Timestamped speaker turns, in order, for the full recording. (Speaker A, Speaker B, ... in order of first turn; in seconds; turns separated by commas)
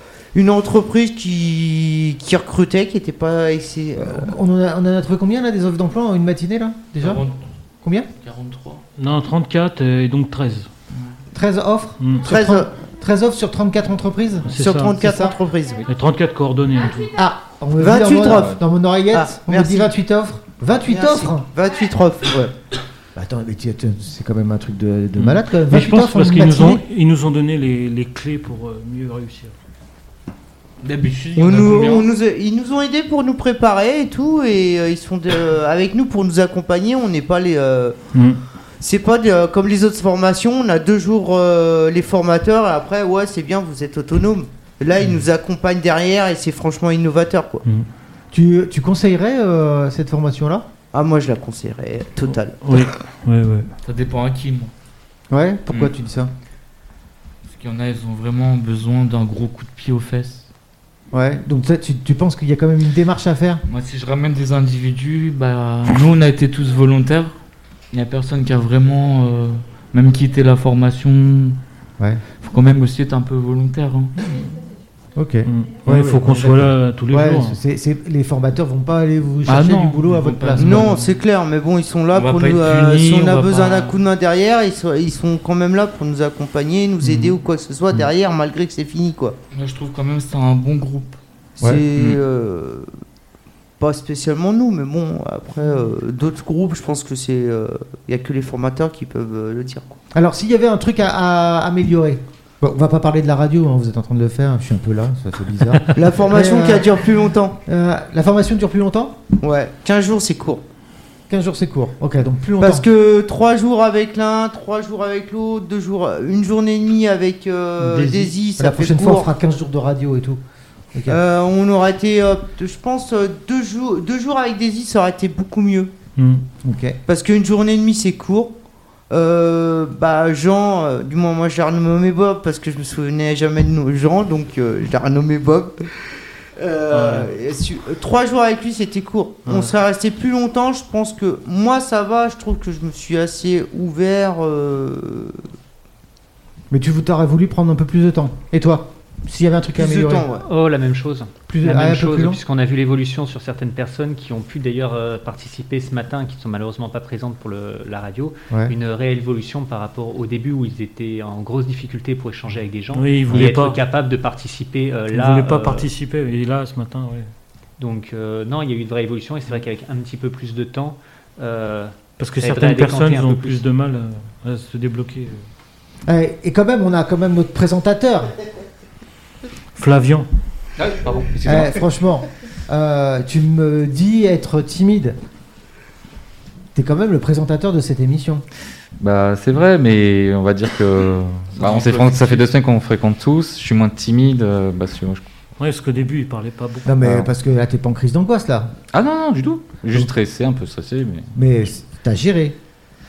Speaker A: 0.3-4.3, Speaker B: 4.0-7.2, Speaker C: 7.0-7.4, Speaker B: 7.8-8.1, Speaker C: 8.2-8.8, Speaker D: 9.0-10.7, Speaker C: 10.9-11.2, Speaker B: 11.3-15.4, Speaker A: 12.2-12.7, Speaker D: 14.4-15.0, Speaker A: 14.5-15.9, Speaker D: 15.8-17.2, Speaker B: 17.1-21.5, Speaker A: 17.8-18.6, Speaker A: 19.1-19.9, Speaker A: 20.9-22.5, Speaker B: 23.1-26.8, Speaker D: 25.7-29.5, Speaker C: 30.8-32.1, Speaker A: 31.4-38.0, Speaker D: 38.1-38.4, Speaker A: 38.8-47.6, Speaker B: 48.3-50.6, Speaker A: 50.9-52.9, Speaker D: 52.6-53.7, Speaker C: 53.8-54.7, Speaker B: 55.3-56.3, Speaker C: 55.7-55.9, Speaker C: 57.4-60.5, Speaker B: 61.1-63.6, Speaker C: 63.7-67.4, Speaker C: 67.9-71.6, Speaker C: 72.4-74.1, Speaker D: 74.2-74.6, Speaker B: 75.1-81.0, Speaker D: 75.4-77.6, Speaker C: 79.4-81.2, Speaker A: 80.6-89.4, Speaker C: 82.1-84.0, Speaker C: 87.0-87.3, Speaker C: 89.5-91.2, Speaker A: 91.6-92.9, Speaker C: 91.9-92.2, Speaker A: 93.8-100.0, Speaker B: 100.1-107.0, Speaker A: 105.9-107.6, Speaker B: 107.6-109.2, Speaker A: 109.4-110.6, Speaker B: 111.3-112.8, Speaker A: 112.6-119.3, Speaker D: 117.8-118.3, Speaker B: 118.6-120.4, Speaker B: 120.9-121.2, Speaker A: 121.0-125.9, Speaker D: 126.2-126.4, Speaker B: 126.6-127.0, Speaker A: 127.1-128.5, Speaker A: 129.1-136.0, Speaker A: 136.6-145.4, Speaker D: 136.9-137.3, Speaker D: 139.4-139.7, Speaker B: 146.7-150.3, Speaker A: 149.7-150.5, Speaker E: 150.4-165.9, Speaker B: 151.5-152.4, Speaker D: 162.9-163.8, Speaker D: 165.1-167.3, Speaker E: 167.8-173.7, Speaker D: 172.2-175.4, Speaker B: 176.1-178.3, Speaker D: 179.7-180.3, Speaker F: 180.9-181.7, Speaker C: 181.0-181.6, Speaker B: 181.4-185.2, Speaker B: 186.7-188.4, Speaker F: 189.0-195.2, Speaker C: 191.5-192.5, Speaker D: 195.6-197.0, Speaker B: 196.8-198.7, Speaker F: 198.9-201.3, Speaker B: 201.3-202.6